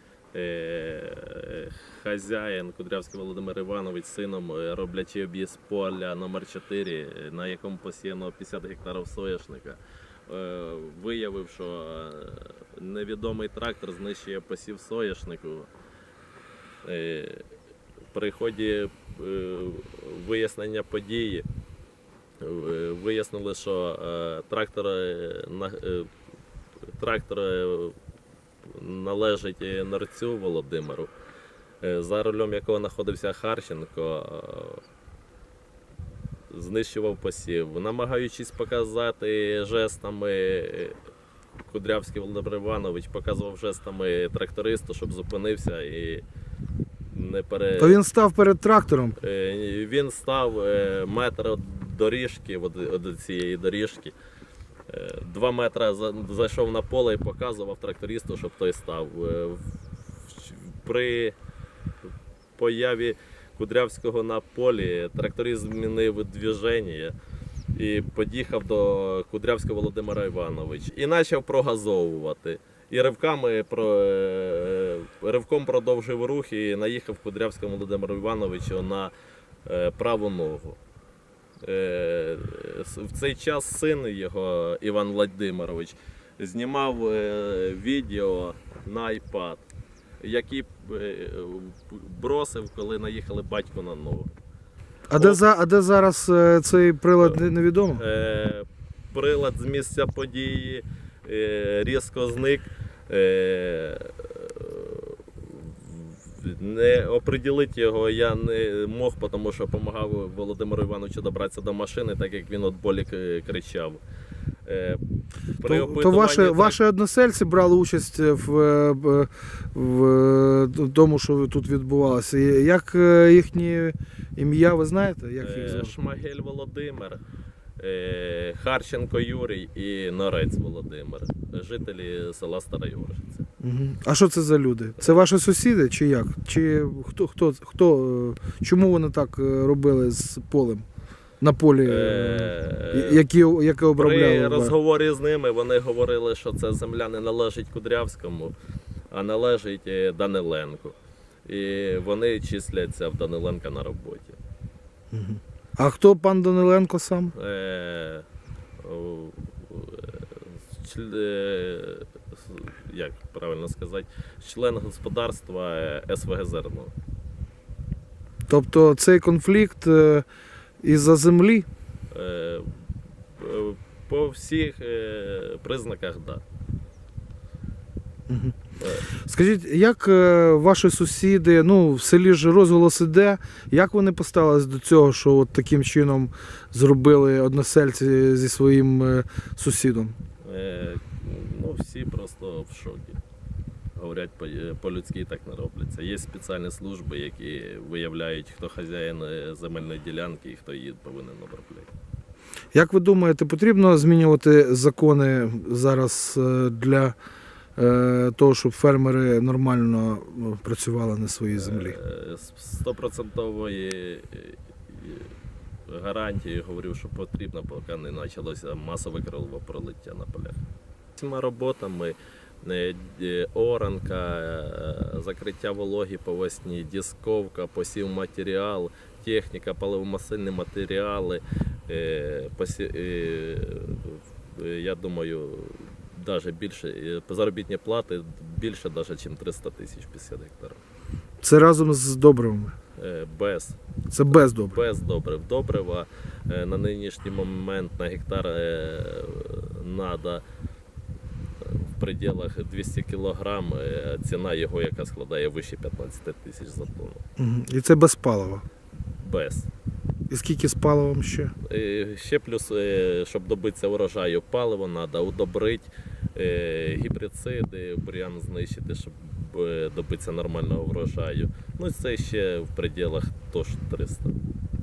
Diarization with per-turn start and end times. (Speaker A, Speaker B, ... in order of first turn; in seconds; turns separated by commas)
Speaker A: 0.3-15.7, Speaker A: 16.8-17.5, Speaker A: 18.1-21.4, Speaker A: 22.4-26.1, Speaker A: 26.9-28.0, Speaker A: 28.6-31.1, Speaker A: 31.8-34.8, Speaker A: 36.5-41.0, Speaker A: 41.6-46.2, Speaker A: 47.1-48.0, Speaker B: 47.8-49.1, Speaker A: 49.2-54.1, Speaker A: 54.9-59.7, Speaker A: 60.2-61.4, Speaker A: 62.6-67.1, Speaker A: 67.7-79.1, Speaker A: 79.7-80.8, Speaker A: 81.6-89.7, Speaker A: 90.2-94.3, Speaker B: 95.1-98.0, Speaker A: 95.1-95.4, Speaker A: 97.2-114.0, Speaker A: 114.6-115.0, Speaker A: 115.6-116.8, Speaker B: 115.6-125.9, Speaker A: 125.4-127.2, Speaker A: 127.8-133.4, Speaker B: 133.6-140.8, Speaker B: 141.4-144.7, Speaker A: 141.8-143.2, Speaker A: 143.9-148.5, Speaker A: 149.1-154.4, Speaker B: 155.1-157.3, Speaker A: 157.3-158.3, Speaker A: 158.8-166.9, Speaker B: 168.5-170.2, Speaker B: 170.8-171.7, Speaker A: 172.1-172.8, Speaker A: 173.3-176.4, Speaker B: 178.3-190.2, Speaker A: 178.8-179.1, Speaker A: 190.4-193.2, Speaker A: 193.9-201.9, Speaker B: 202.7-207.2, Speaker B: 207.8-212.0, Speaker A: 211.5-215.3, Speaker A: 215.9-220.6, Speaker A: 221.2-240.8, Speaker B: 241.4-242.7, Speaker A: 243.0-243.8, Speaker B: 244.1-244.8, Speaker A: 244.3-250.4, Speaker A: 251.6-257.2, Speaker B: 257.4-258.6, Speaker A: 259.2-259.7, Speaker B: 260.3-261.5, Speaker A: 261.6-274.4